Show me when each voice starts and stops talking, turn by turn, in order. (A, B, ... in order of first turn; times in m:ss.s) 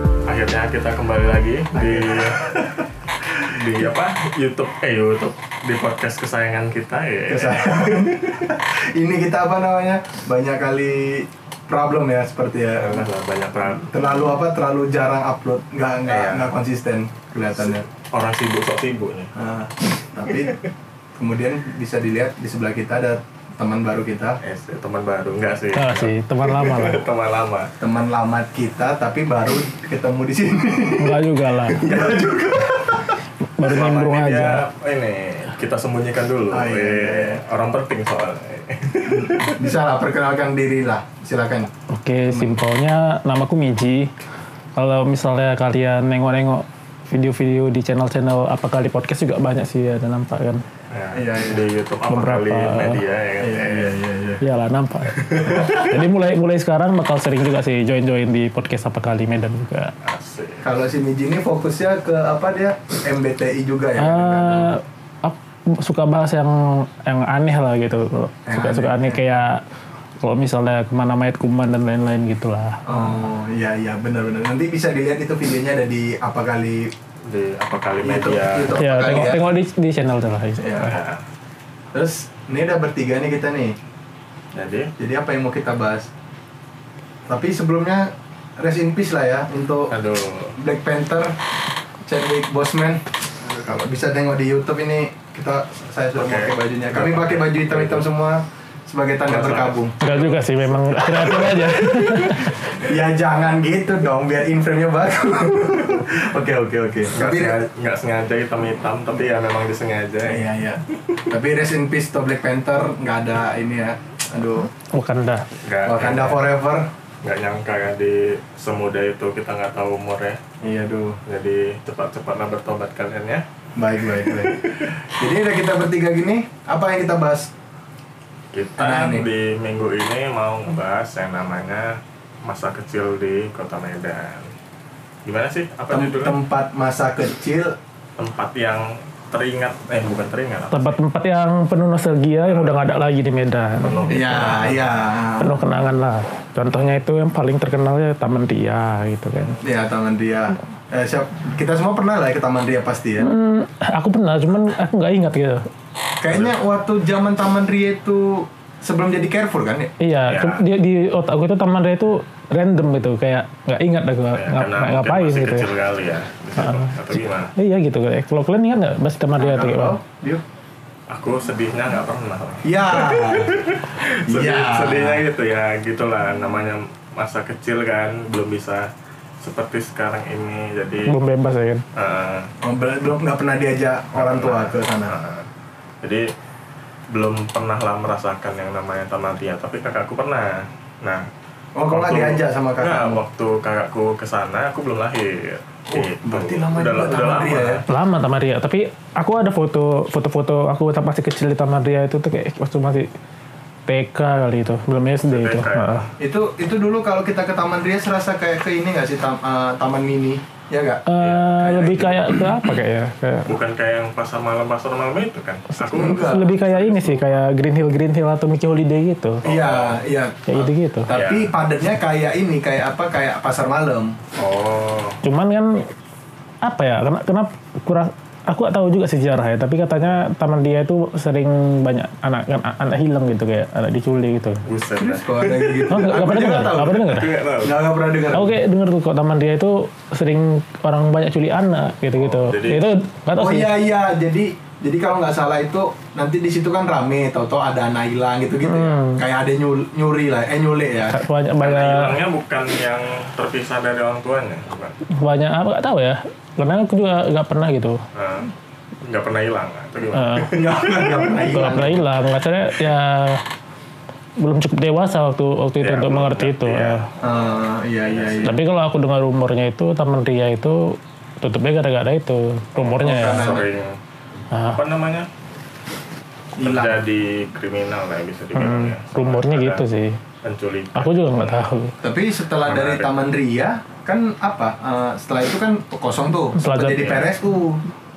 0:00.3-0:02.7 A
0:01.7-0:03.5 B
0:03.4-0:08.4 A
0:07.3-0:13.1 B
0:12.8-0:14.0 A
0:13.8-0:17.8 B
0:16.1-0:16.6 A
0:17.6-0:19.3 A
0:19.4-0:20.6 B
0:21.2-0:24.4 B
0:24.4-0:27.7 A
0:25.8-0:27.0 C
0:27.8-0:33.2 B
0:31.0-0:31.9 C
0:31.9-0:32.2 A
0:33.6-0:34.6 C
0:33.6-0:39.6 A
0:36.5-0:37.4 B
0:39.2-0:41.7 B
0:41.9-0:44.1 C
0:42.3-0:42.6 B
0:44.8-0:50.6 C
0:50.9-0:54.0 A
0:51.1-0:51.7 B
0:52.1-0:53.0 C
0:53.4-0:54.4 B
0:54.4-0:59.9 C
0:55.4-0:55.8 B
1:00.0-1:00.7 A
1:00.6-1:04.7 B
1:04.0-1:09.6 C
1:08.5-1:09.2 B
1:10.2-1:13.1 C
1:12.8-1:16.9 B
1:17.3-1:18.8 A
1:18.0-1:19.4 B
1:18.8-1:21.0 C
1:20.6-1:20.9 B
1:20.8-1:21.2 A
1:21.9-1:23.8 B
1:24.5-1:24.9 A
1:25.0-1:26.1 B
1:27.3-1:29.9 B
1:29.9-1:30.6 A
1:30.6-1:31.4 B
1:32.1-1:40.0 B
1:36.2-1:38.1 A
1:39.3-1:43.0 A
1:40.0-1:42.6 C
1:41.1-1:47.6 B
1:47.1-1:50.5 A
1:50.3-1:54.7 B
1:54.9-1:55.5 C
1:55.6-1:56.4 A
1:55.8-1:56.9 B
1:57.2-2:00.4 A
2:00.6-2:01.2 B
2:01.3-2:03.4 A
2:03.8-2:07.5 B
2:04.0-2:05.1 A
2:08.5-2:14.5 A
2:08.8-2:09.3 B
2:15.2-2:16.4 A
2:15.9-2:17.8 B
2:18.2-2:21.0 A
2:20.7-2:24.6 C
2:22.5-2:22.8 A
2:23.8-2:25.0 A
2:24.1-2:25.6 B
2:25.4-2:29.6 C
2:29.6-2:33.3 B
2:33.2-2:35.7 C
2:36.2-2:39.9 B
2:36.3-2:36.6 A
2:40.0-2:45.7 C
2:40.3-2:40.6 A
2:44.3-2:47.5 A
2:46.6-2:47.0 C
2:47.6-2:50.0 C
2:49.4-2:50.4 B
2:51.1-2:58.9 A
2:52.6-2:53.6 B
2:54.3-2:55.2 B
2:59.4-3:01.1 A
3:01.1-3:01.8 C
3:02.0-3:02.5 A
3:02.6-3:05.1 B
3:04.2-3:05.5 A
3:06.0-3:06.3 A
3:07.1-3:11.3 A
3:11.8-3:13.2 B
3:11.9-3:17.8 A
3:15.9-3:17.8 B
3:17.9-3:23.1 C
3:23.9-3:26.1 C
3:25.2-3:26.1 A
3:26.2-3:31.0 B
3:31.1-3:33.6 C
3:31.2-3:31.5 A
3:31.6-3:32.5 B
3:33.5-3:37.4 A
3:35.9-3:39.4 C
3:35.9-3:36.5 B
3:39.4-3:40.0 A
3:39.4-3:44.2 B
3:40.5-3:41.1 C
3:41.1-3:41.5 A
3:44.4-3:45.2 A
3:45.2-3:45.9 C
3:46.6-3:54.6 C
3:54.7-3:56.0 A
3:55.0-3:57.1 B
3:55.9-3:57.3 C
3:56.8-3:57.8 A
3:57.6-3:58.6 B
3:58.3-4:03.7 C
4:02.2-4:02.8 A
4:03.4-4:11.2 B
4:08.6-4:09.2 C
4:11.1-4:12.2 C
4:11.6-4:15.0 A
4:15.2-4:18.0 C
4:18.2-4:18.5 A
4:19.1-4:21.4 A
4:20.1-4:20.5 C
4:20.5-4:22.1 B
4:21.5-4:23.4 C
4:24.4-4:27.1 C
4:25.8-4:27.4 A
4:27.2-4:28.6 B
4:28.0-4:28.6 A
4:28.4-4:33.6 C
4:32.8-4:34.0 A
4:33.0-4:33.7 B
4:34.5-4:34.8 C
4:34.6-4:35.3 A
4:36.6-4:37.0 B
4:36.6-4:39.8 A
4:38.6-4:40.2 C
4:40.4-4:41.7 A
4:41.0-4:42.0 C
4:42.0-4:47.8 B
4:42.6-4:43.2 A
4:46.6-4:47.1 C
4:46.9-4:47.3 A